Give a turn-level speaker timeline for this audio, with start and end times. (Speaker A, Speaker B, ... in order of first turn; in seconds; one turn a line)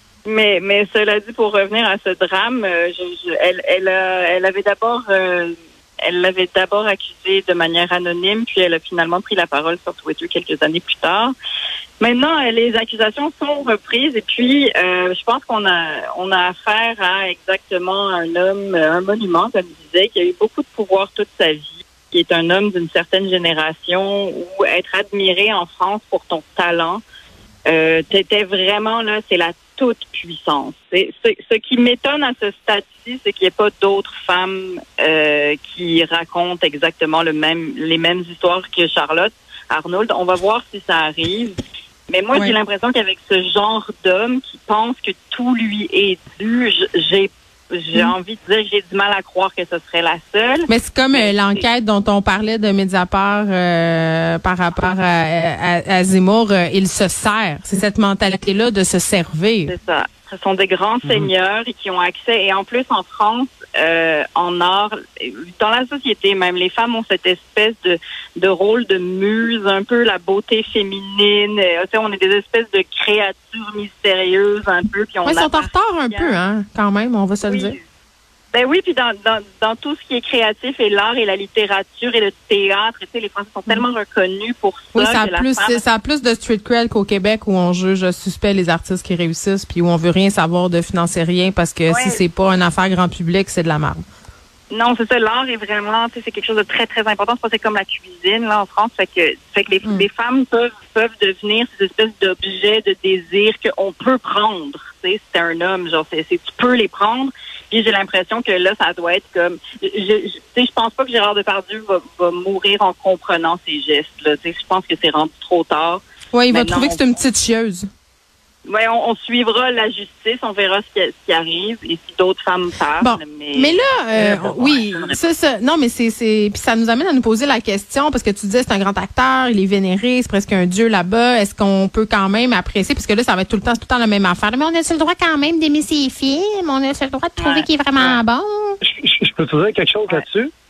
Speaker A: 0.2-11.3
Speaker A: 12.0-27.0
Speaker A: 27.7-41.5
Speaker A: 42.1-51.6
Speaker B: 50.7-59.7
Speaker A: 59.7-76.3
Speaker C: 61.0-61.3
Speaker B: 75.2-77.8
Speaker A: 77.5-77.8
Speaker A: 78.5-85.8
Speaker B: 84.9-94.0
Speaker A: 91.9-92.2
Speaker A: 94.7-117.2
Speaker B: 116.3-117.9
Speaker A: 118.7-125.3
Speaker B: 123.0-138.8
Speaker A: 137.4-138.2
Speaker C: 138.8-140.5